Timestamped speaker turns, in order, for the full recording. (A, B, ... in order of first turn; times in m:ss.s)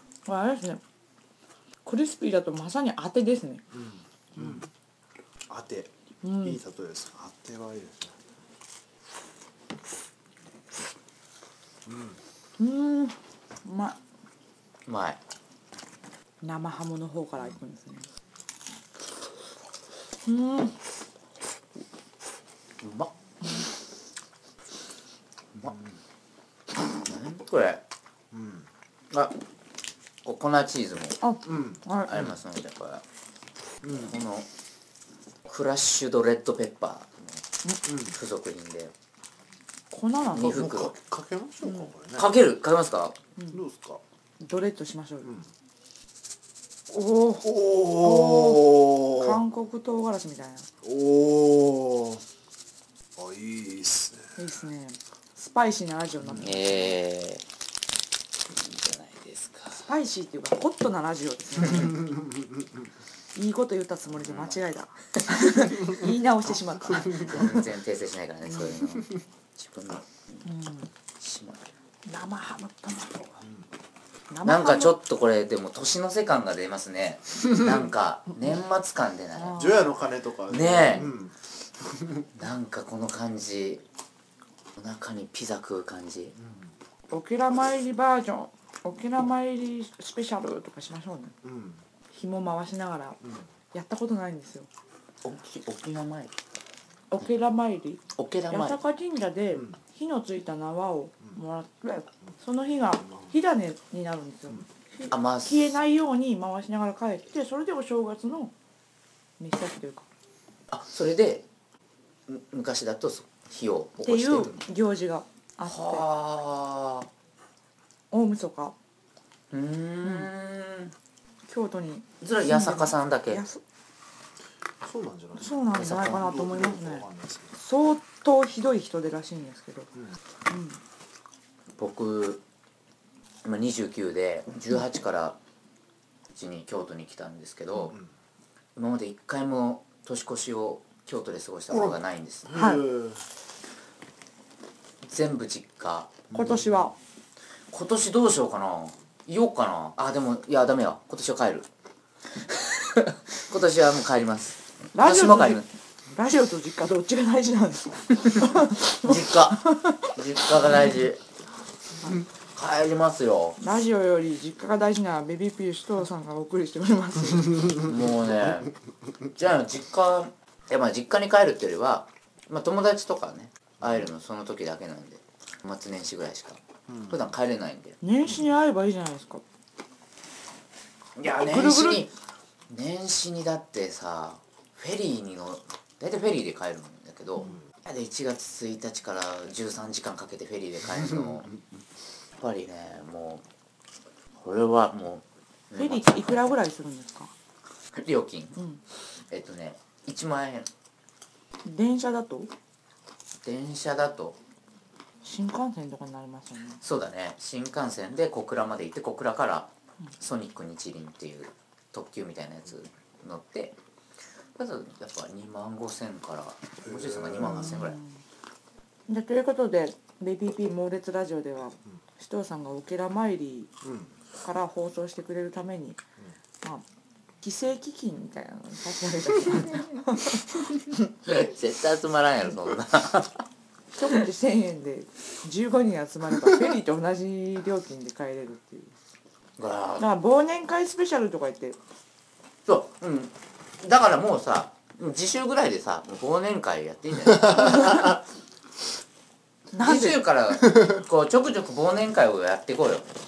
0:00.3-0:00.8 A
0:01.8-0:03.6 A
0:03.7-0:04.7 B
0:05.5-0:08.2 B
0:06.2-0:06.6 A
0:11.9-0:12.2 B
0:12.6-0:14.0 A
0:14.9-0:15.2 C
0:16.4-0:18.1 A
0:20.2-0:20.8 A
0:22.8-0:23.1 C
0:25.6-0:26.0 B
0:27.0-0:27.8 C
0:28.3-0:28.7 B
0:29.1-0:29.4 C
0:30.2-0:31.2 C
0:31.2-0:32.2 A
0:31.5-0:31.8 B
0:32.1-0:33.0 C
0:33.8-0:34.5 C
0:35.4-0:37.4 C
0:37.9-0:38.1 B
0:38.0-0:38.9 C
0:39.9-0:40.6 A
0:40.3-0:41.0 C
0:40.4-0:42.3 B
0:41.6-0:41.9 A
0:42.2-0:43.2 C
0:43.5-0:44.0 B
0:44.4-0:45.3 A
0:46.9-0:50.7 A
0:47.4-0:49.4 B
0:50.8-0:52.2 B
0:53.2-0:54.4 B
0:54.4-0:56.9 A
0:56.4-0:57.4 C
0:58.5-0:59.8 C
0:59.8-1:02.0 A
1:02.0-1:02.7 B
1:03.4-1:07.6 A
1:04.3-1:04.5 C
1:06.9-1:07.4 B
1:07.0-1:10.4 C
1:10.4-1:10.9 A
1:11.2-1:11.7 C
1:12.1-1:13.4 A
1:14.3-1:15.0 A
1:14.4-1:19.6 C
1:19.4-1:19.9 A
1:19.6-1:21.3 B
1:20.5-1:21.1 C
1:22.0-1:22.2 B
1:22.3-1:23.8 C
1:24.8-1:26.4 C
1:26.4-1:26.7 B
1:27.1-1:31.4 A
1:31.4-1:31.8 B
1:32.1-1:33.2 A
1:33.7-1:34.7 A
1:35.2-1:36.3 C
1:37.1-1:48.5 A
1:38.2-1:38.8 C
1:45.1-1:45.7 C
1:49.4-1:50.1 A
1:50.7-1:51.5 C
1:52.3-1:54.6 C
1:54.0-1:56.0 A
1:55.7-1:57.1 C
1:58.1-1:58.8 A
1:59.5-2:00.9 C
2:00.0-2:00.3 A
2:01.5-2:03.6 A
2:02.2-2:03.4 C
2:04.8-2:07.6 B
2:05.4-2:09.9 A
2:10.5-2:10.8 A
2:11.8-2:12.4 C
2:13.4-2:15.4 C
2:16.3-2:18.0 C
2:18.8-2:22.5 C
2:21.7-2:23.2 B
2:22.5-2:22.8 A
2:25.0-2:26.3 C
2:26.3-2:26.9 B
2:26.3-2:26.9 A
2:27.7-2:31.7 C
2:32.5-2:35.7 C
2:34.9-2:40.9 A
2:38.9-2:41.2 C
2:42.5-2:43.6 C
2:43.6-2:47.6 A
2:47.8-2:48.7 C
2:49.4-2:58.0 C
2:58.0-2:59.4 A
3:01.2-3:02.1 C
3:01.3-3:02.1 A
3:02.7-3:11.6 C
3:12.4-3:13.4 C
3:14.4-3:16.6 C
3:15.8-3:17.3 A
3:17.9-3:18.6 C
3:18.6-3:18.8 A
3:19.3-3:20.7 C
3:21.6-3:22.5 A
3:23.4-3:24.4 C
3:25.2-3:26.8 A
3:26.8-3:33.8 C
3:34.6-3:38.0 C
3:36.8-3:37.8 B
3:37.6-3:38.2 A
3:39.1-3:43.7 A
3:43.8-3:44.1 B
3:44.4-3:46.0 A
3:47.4-3:51.0 A
3:51.2-3:53.4 C
3:54.0-3:59.0 A
3:59.6-4:00.0 C
4:00.0-4:01.8 A
4:02.7-4:08.2 C
4:07.6-4:08.1 A
4:09.7-4:10.2 A
4:09.8-4:13.1 C